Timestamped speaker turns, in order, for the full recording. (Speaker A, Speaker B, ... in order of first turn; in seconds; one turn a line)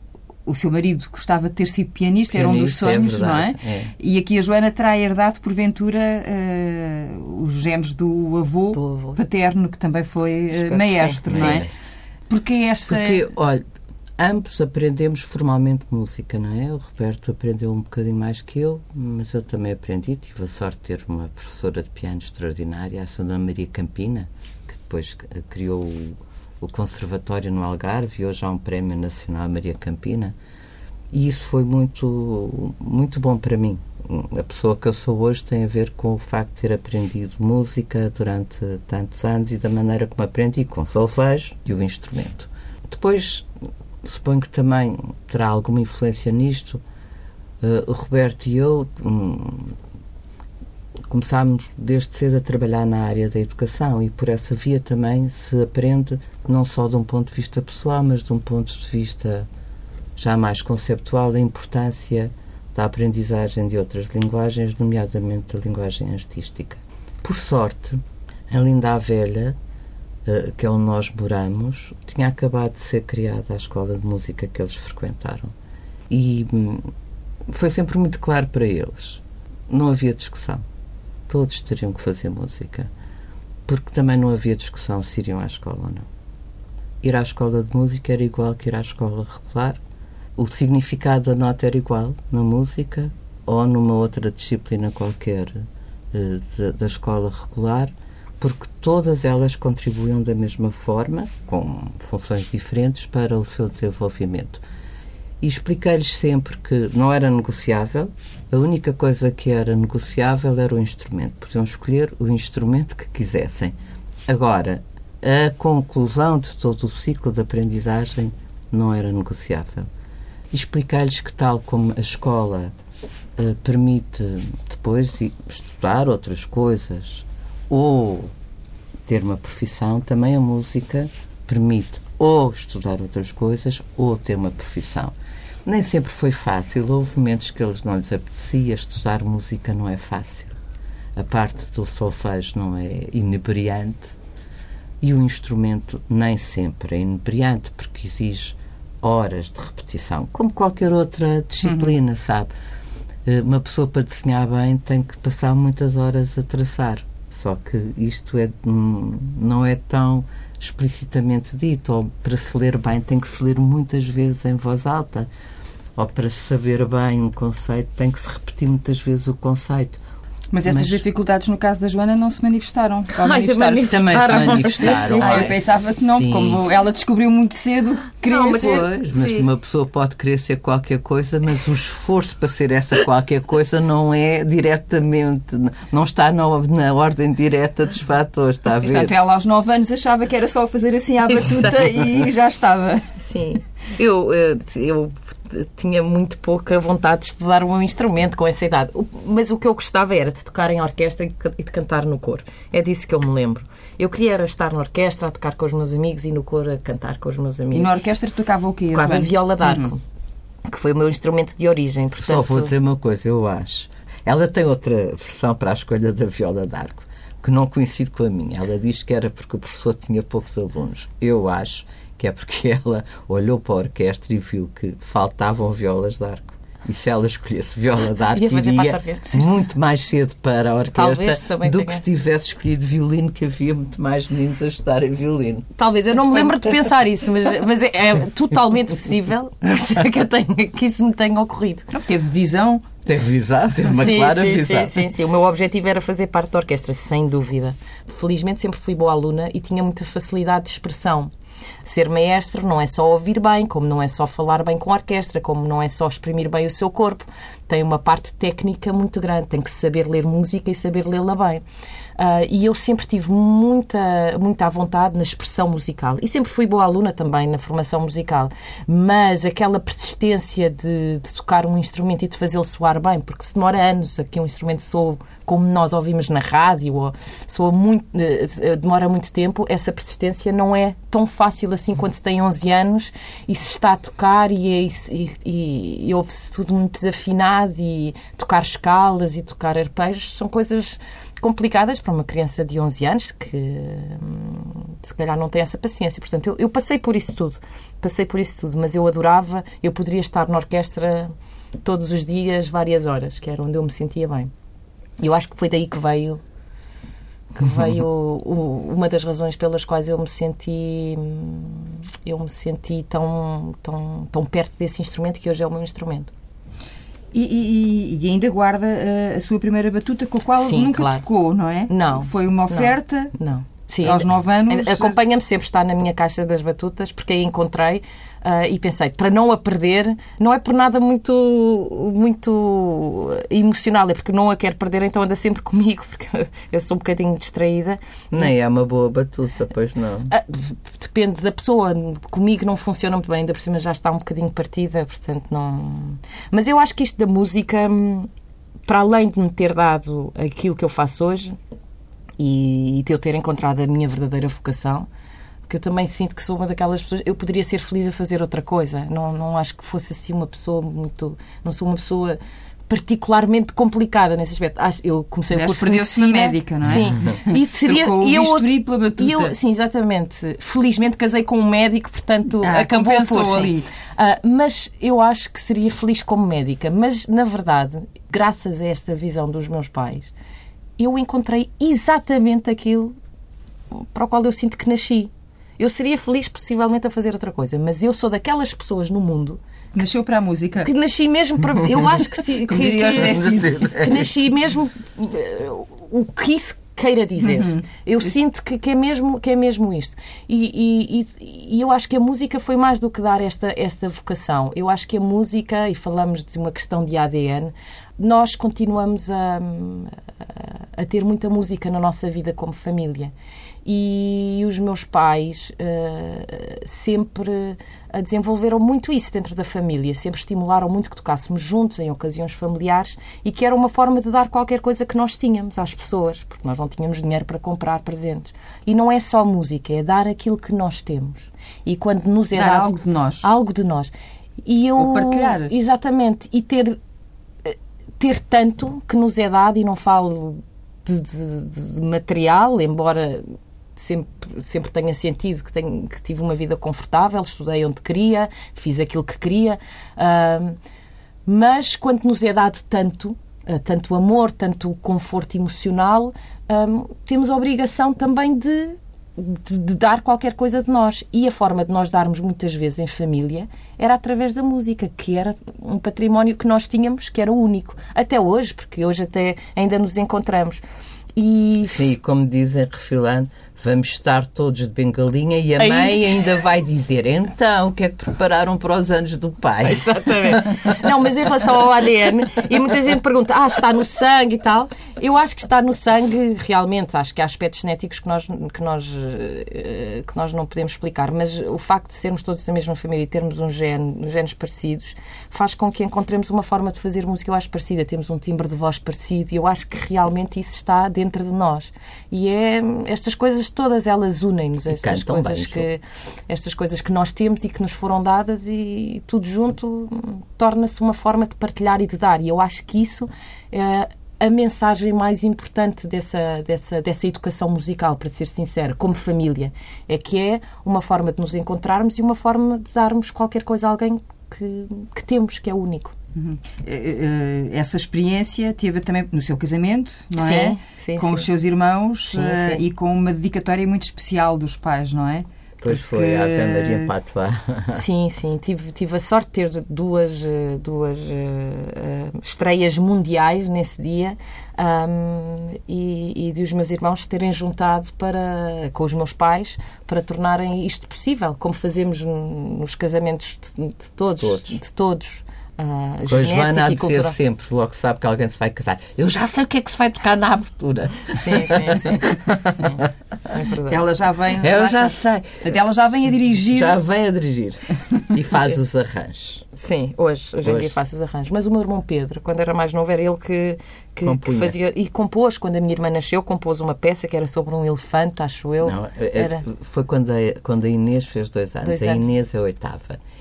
Speaker A: 0.5-11.7
Speaker B: 2.3-3.9
Speaker C: 8.7-9.2
Speaker C: 10.5-11.7
Speaker B: 11.3-11.7
Speaker A: 12.3-13.2
Speaker B: 12.9-13.6
Speaker B: 14.2-30.4
Speaker B: 31.1-43.5
Speaker B: 44.0-46.8
Speaker B: 47.6-49.8
Speaker B: 51.1-59.5
Speaker B: 60.1-69.6
Speaker B: 70.2-75.5
Speaker B: 76.1-76.9
Speaker B: 77.5-80.6
Speaker B: 81.3-82.9
Speaker B: 83.7-86.1
Speaker B: 87.0-89.8
Speaker B: 90.4-104.6
Speaker B: 105.4-113.7
Speaker B: 114.3-119.9
Speaker B: 120.5-122.7
Speaker B: 123.4-128.3
Speaker B: 129.1-135.1
Speaker B: 135.7-140.6
Speaker B: 141.2-144.1
Speaker B: 145.0-152.5
Speaker A: 151.6-151.9
Speaker B: 153.2-165.3
Speaker B: 165.9-170.0
Speaker A: 170.5-178.8
Speaker B: 170.6-171.0
Speaker C: 173.2-175.5
Speaker B: 173.8-176.6
Speaker C: 178.3-179.5
Speaker B: 178.4-189.2
Speaker A: 188.8-193.1
Speaker C: 191.3-191.8
Speaker C: 193.2-207.9
Speaker A: 207.7-209.9
Speaker C: 208.9-210.0
Speaker C: 210.7-212.7
Speaker B: 212.2-235.7
Speaker C: 228.3-229.5
Speaker C: 230.9-232.0
Speaker C: 235.8-241.9
Speaker A: 241.9-242.9
Speaker B: 243.1-245.1
Speaker C: 243.9-251.3
Speaker C: 251.8-261.6
Speaker C: 262.2-304.5
Speaker C: 305.2-306.4
Speaker C: 307.5-316.3
Speaker A: 317.3-323.3
Speaker C: 320.6-321.2
Speaker C: 321.9-338.5
Speaker A: 324.0-325.2
Speaker B: 338.3-340.3
Speaker C: 340.3-348.3
Speaker C: 348.9-351.6
Speaker C: 352.4-355.1
Speaker C: 355.7-380.3
Speaker A: 365.5-369.5
Speaker A: 372.6-373.9
Speaker C: 381.0-383.1
Speaker C: 383.9-389.6
Speaker A: 389.9-390.9
Speaker C: 390.8-413.3
Speaker A: 392.7-393.9
Speaker B: 393.2-394.3
Speaker A: 397.4-397.8
Speaker C: 413.9-434.1
Speaker A: 432.6-433.5
Speaker C: 434.6-437.0
Speaker A: 435.0-435.7
Speaker C: 437.6-450.8
Speaker C: 451.4-470.8
Speaker C: 471.4-472.0
Speaker B: 471.9-480.8
Speaker C: 475.8-476.3
Speaker C: 479.8-526.1
Speaker B: 504.9-505.9
Speaker A: 526.4-537.1
Speaker C: 530.4-531.5
Speaker C: 532.3-532.8
Speaker B: 535.8-538.0
Speaker C: 537.9-557.4
Speaker B: 554.4-554.8
Speaker B: 556.3-563.1
Speaker C: 561.4-564.0
Speaker A: 563.9-566.9
Speaker B: 564.6-565.7
Speaker B: 566.7-569.7
Speaker C: 569.7-579.6
Speaker B: 570.6-570.9
Speaker B: 574.2-574.8
Speaker B: 578.8-583.2
Speaker C: 581.8-582.2